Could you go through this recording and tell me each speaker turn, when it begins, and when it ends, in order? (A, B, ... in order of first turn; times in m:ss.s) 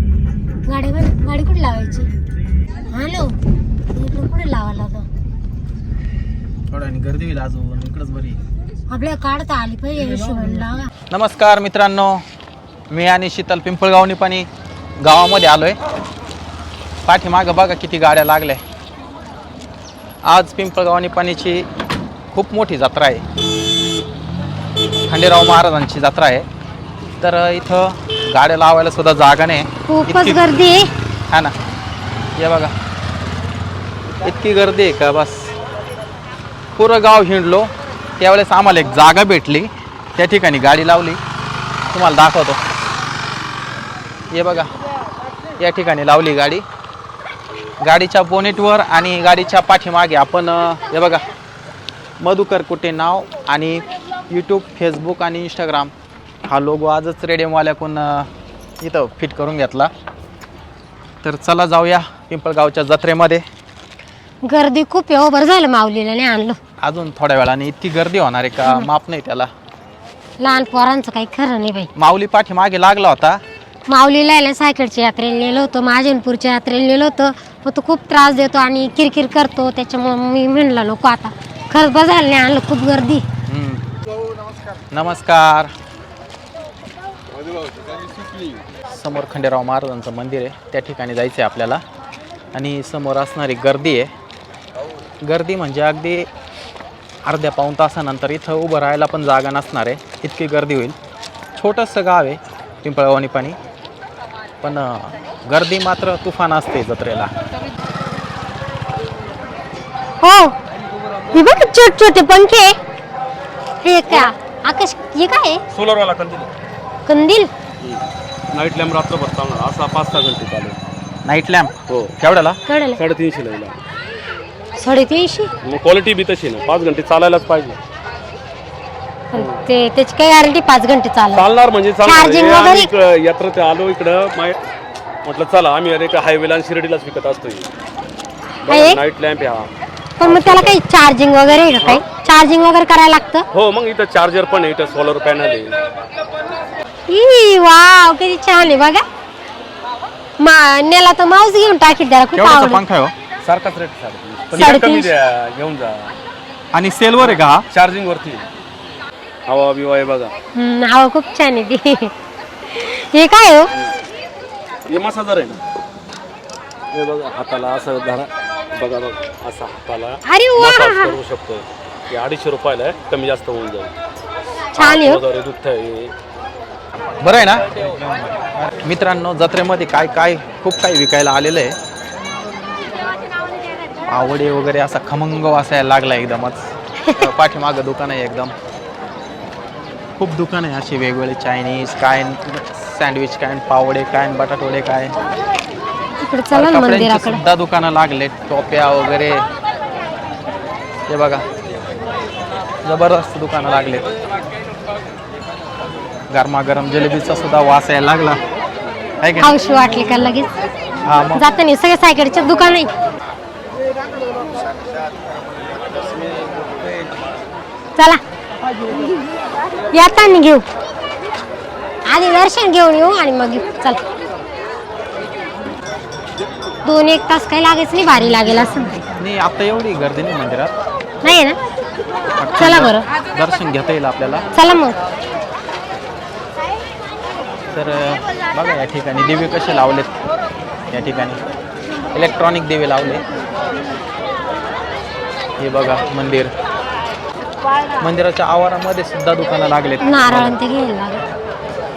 0:00.6-0:02.1 A
0:02.9-0:03.4 A
0:03.9-0:05.1 A
0:06.7-0:08.4 B
0:08.9-0:10.9 A
0:11.1-0:12.2 B
0:12.9-0:14.5 B
0:15.0-0:15.8 B
0:17.0-0:18.6 B
0:20.2-0:21.7 B
0:22.3-0:23.2 B
0:25.1-0:26.5 B
0:27.2-0:30.6 B
0:29.9-0:30.9 A
0:32.4-0:32.7 B
0:34.2-0:35.5 B
0:36.8-0:41.2 B
0:41.9-0:42.6 B
0:44.3-0:44.7 B
0:45.6-0:46.6 B
0:47.8-0:51.2 B
0:52.2-0:55.9 B
0:56.5-0:58.3 B
0:58.8-0:59.9 B
1:01.2-1:03.4 B
1:04.4-1:06.6 A
1:06.8-1:09.5 B
1:10.4-1:11.9 A
1:12.0-1:13.4 B
1:13.9-1:23.2 A
1:23.5-1:23.8 B
1:24.9-1:25.7 B
1:28.9-1:31.8 B
1:32.5-1:34.1 B
1:35.2-1:36.3 B
1:37.2-1:40.9 B
1:41.5-1:43.6 B
1:44.6-1:47.3 B
1:50.2-1:50.5 A
1:51.3-1:52.8 A
1:53.8-1:55.6 A
1:55.7-1:56.5 C
1:57.1-1:57.5 A
1:58.5-2:00.8 C
2:01.2-2:02.6 B
2:02.7-2:03.0 A
2:03.0-2:03.8 C
2:04.8-2:05.5 A
2:05.6-2:07.8 C
2:09.3-2:11.4 A
2:11.3-2:14.6 C
2:12.0-2:12.9 A
2:15.2-2:17.7 C
2:18.6-2:19.7 C
2:18.7-2:19.0 A
2:20.2-2:23.4 A
2:20.2-2:20.8 C
2:23.5-2:25.7 C
2:27.1-2:29.0 A
2:30.4-2:32.8 A
2:32.3-2:33.1 B
2:33.4-2:36.1 C
2:34.5-2:35.1 A
2:36.7-2:37.6 B
2:37.2-2:38.4 C
2:39.5-2:40.3 C
2:40.6-2:42.1 A
2:42.7-2:43.7 A
2:44.9-2:45.6 C
2:46.9-2:53.9 C
2:50.3-2:51.1 A
2:54.7-2:55.2 A
2:54.7-2:56.1 C
2:57.2-2:57.6 B
2:57.8-2:58.2 C
2:58.8-3:01.8 B
3:04.1-3:08.5 B
3:10.2-3:15.1 B
3:16.2-3:17.4 A
3:16.5-3:19.4 B
3:21.1-3:21.4 B
3:22.8-3:24.1 B
3:26.3-3:28.4 B
3:29.2-3:29.6 B
3:29.4-3:30.5 A
3:31.0-3:31.5 B
3:31.4-3:32.9 A
3:39.9-3:40.6 A
3:42.1-3:44.0 A
3:46.8-3:49.0 A
3:49.2-3:50.7 B
3:51.2-3:51.6 A
3:52.4-3:54.5 B
3:52.6-3:53.0 A
3:54.5-3:55.0 A
3:57.7-4:00.2 B
4:00.9-4:01.4 B
4:02.1-4:03.2 B
4:05.6-4:06.5 B
4:08.0-4:10.6 B
4:10.0-4:11.2 A